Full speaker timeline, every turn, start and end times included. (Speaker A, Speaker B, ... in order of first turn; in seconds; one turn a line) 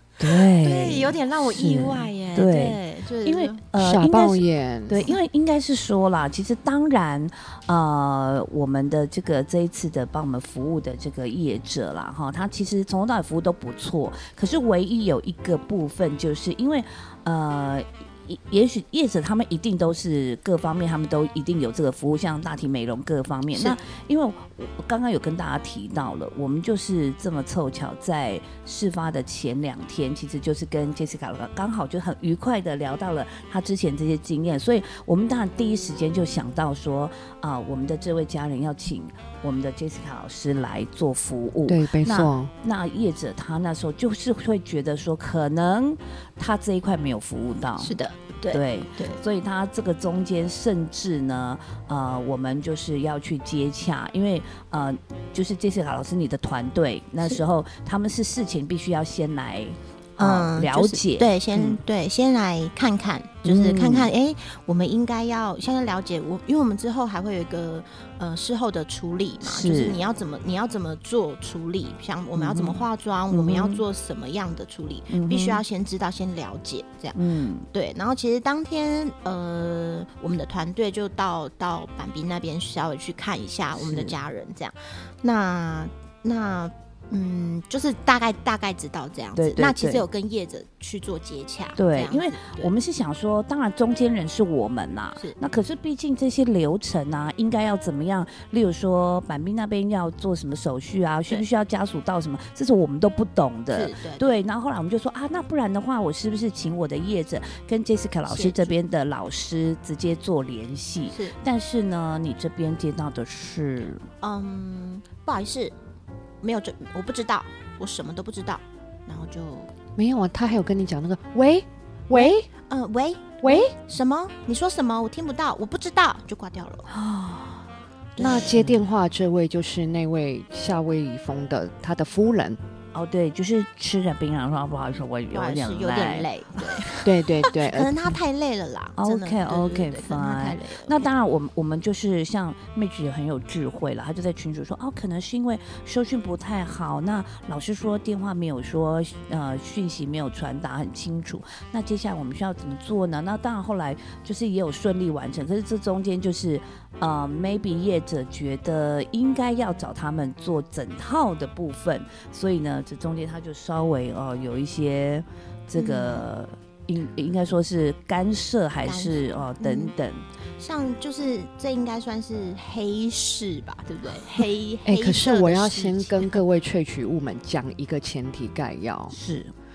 Speaker A: 0.2-48.0
Speaker B: 0.3-3.6
Speaker C: 3.8-5.1
Speaker C: 41.7-42.5
Speaker B: 47.8-49.2
Speaker A: 48.5-61.8
Speaker B: 60.2-77.2
Speaker A: 63.4-64.1
Speaker A: 69.4-69.9
Speaker A: 72.3-73.8
Speaker A: 75.1-75.6
Speaker A: 77.1-77.7
Speaker B: 77.7-92.7
Speaker A: 83.7-84.1
Speaker A: 89.3-90.0
Speaker A: 91.8-114.0
Speaker B: 103.7-104.3
Speaker B: 108.3-108.7
Speaker B: 114.2-115.8
Speaker B: 116.4-119.7
Speaker C: 120.0-122.5
Speaker B: 122.1-126.9
Speaker C: 123.4-123.7
Speaker A: 126.9-127.6
Speaker B: 128.2-128.5
Speaker A: 128.2-128.8
Speaker C: 128.2-132.6
Speaker A: 132.9-136.9
Speaker B: 135.3-140.9
Speaker C: 137.0-138.0
Speaker A: 139.0-170.2
Speaker B: 165.7-166.2
Speaker B: 168.8-169.9
Speaker B: 170.6-176.4
Speaker C: 174.8-179.2
Speaker A: 179.1-179.5